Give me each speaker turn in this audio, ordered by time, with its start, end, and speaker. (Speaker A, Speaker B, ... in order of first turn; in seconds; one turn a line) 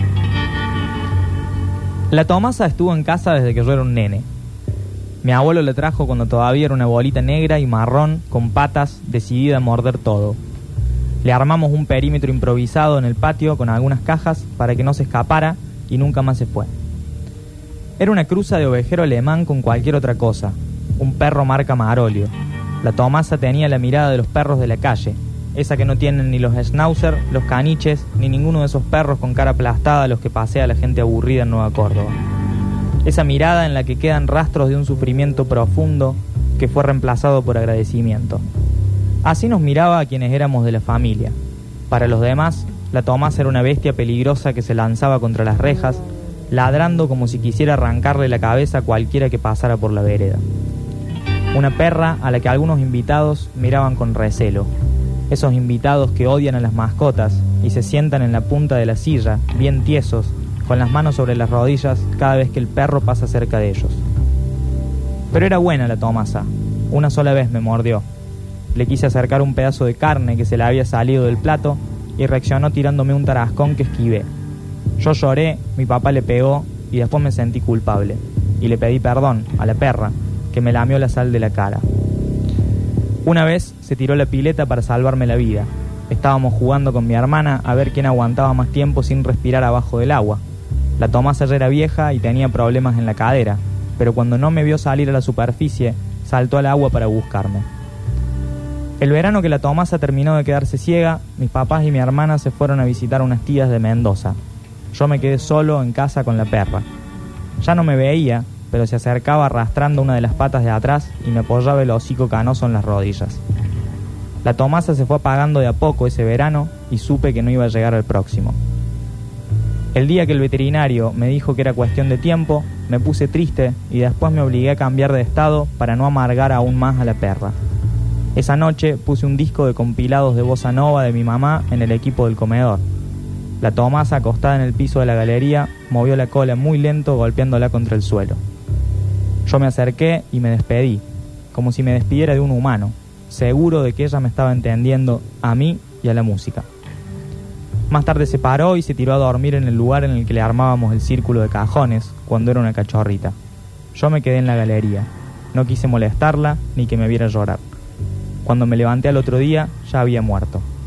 Speaker A: 2.1-4.3
Speaker A: 5.2-10.4
Speaker A: 11.2-16.7
Speaker A: 18.0-32.2
Speaker A: 33.0-38.4
Speaker A: 39.2-41.4
Speaker A: 41.9-50.4
Speaker A: 51.5-54.7
Speaker A: 55.3-64.0
Speaker A: 65.3-68.0
Speaker A: 68.7-74.3
Speaker A: 75.0-81.8
Speaker A: 83.2-90.4
Speaker A: 91.0-97.7
Speaker A: 99.0-104.4
Speaker A: 104.9-106.8
Speaker A: 107.6-113.4
Speaker A: 114.4-118.6
Speaker A: 119.9-127.5
Speaker A: 128.4-132.8
Speaker A: 133.6-138.4
Speaker A: 139.5-146.7
Speaker A: 147.9-153.3
Speaker A: 153.9-157.6
Speaker A: 158.4-160.7